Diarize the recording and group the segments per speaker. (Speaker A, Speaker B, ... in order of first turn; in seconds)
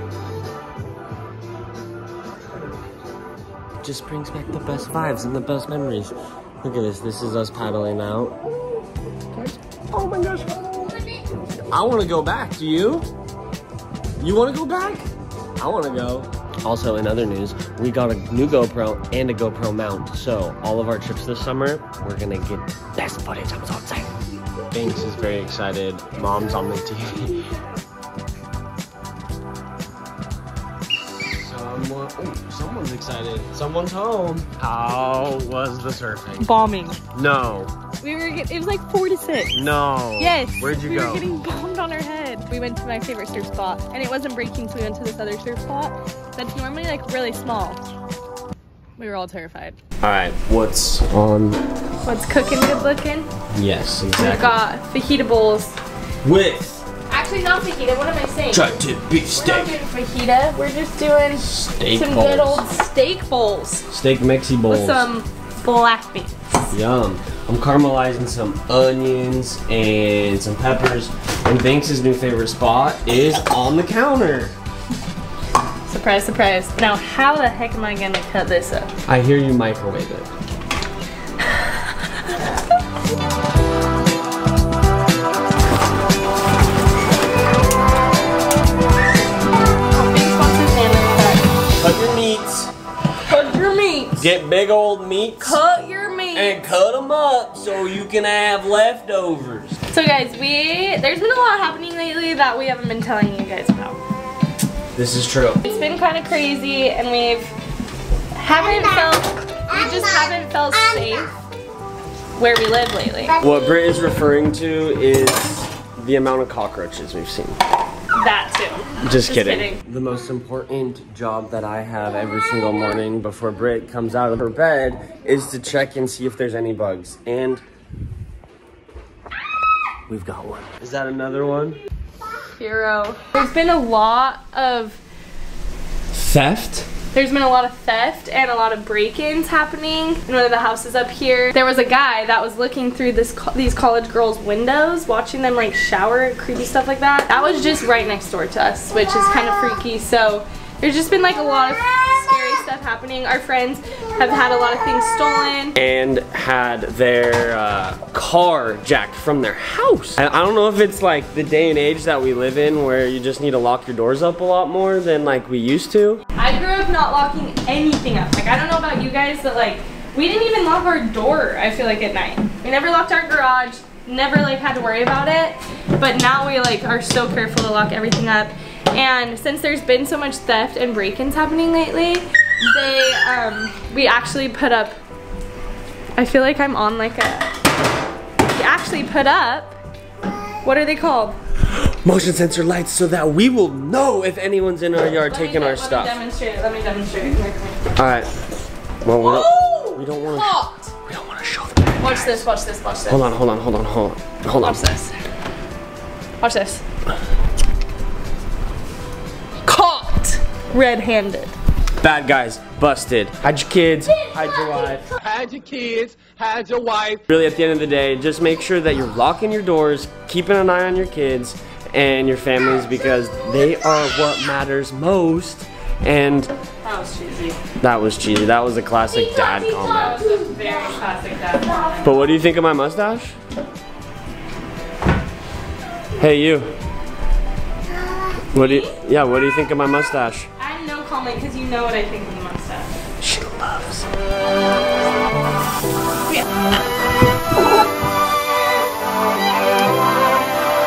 Speaker A: 3.8-8.4, 9.3-13.1, 14.2-15.1, 15.6-24.1, 24.7-27.5, 31.1-36.5, 37.1-37.7, 39.5-41.3, 50.0-51.6, 53.5-54.6, 56.2-56.8, 58.5-59.8, 61.4-62.7, 63.9-65.1, 66.7-74.5, 79.1-80.3, 91.7-92.7, 94.2-95.6, 96.3-99.8, 105.0-105.7, 113.4-117.6, 119.0-127.6, 130.1-131.8, 136.1-136.9, 155.8-166.2, 191.7-196.2, 198.0-198.3, 199.0-202.5, 203.1-204.9, 212.0-215.1, 217.3-226.5, 227.8-230.2, 232.0-233.4, 236.2-236.7, 238.5-240.5, 243.2-244.1
Speaker B: 36.4-37.0, 38.0-39.6, 40.2-47.8, 49.0-49.8, 52.1-53.3, 54.2-55.7, 57.1-63.9, 64.7-66.7, 75.9-78.9, 89.9-91.5, 93.2-94.3, 95.4-96.6, 99.9-104.0, 105.7-107.5, 108.3-111.4, 112.4-113.4, 118.2-119.8, 132.6-135.0, 137.1-155.8, 166.3-185.0, 186.2-187.5, 188.4-189.8, 190.6-191.4, 195.2-197.9, 199.2-200.9, 202.0-203.3, 204.6-205.2, 206.4-206.8, 209.7-211.5, 226.8-227.6, 229.2-232.2, 238.2-239.0, 240.6-243.0
Speaker C: 215.3-217.2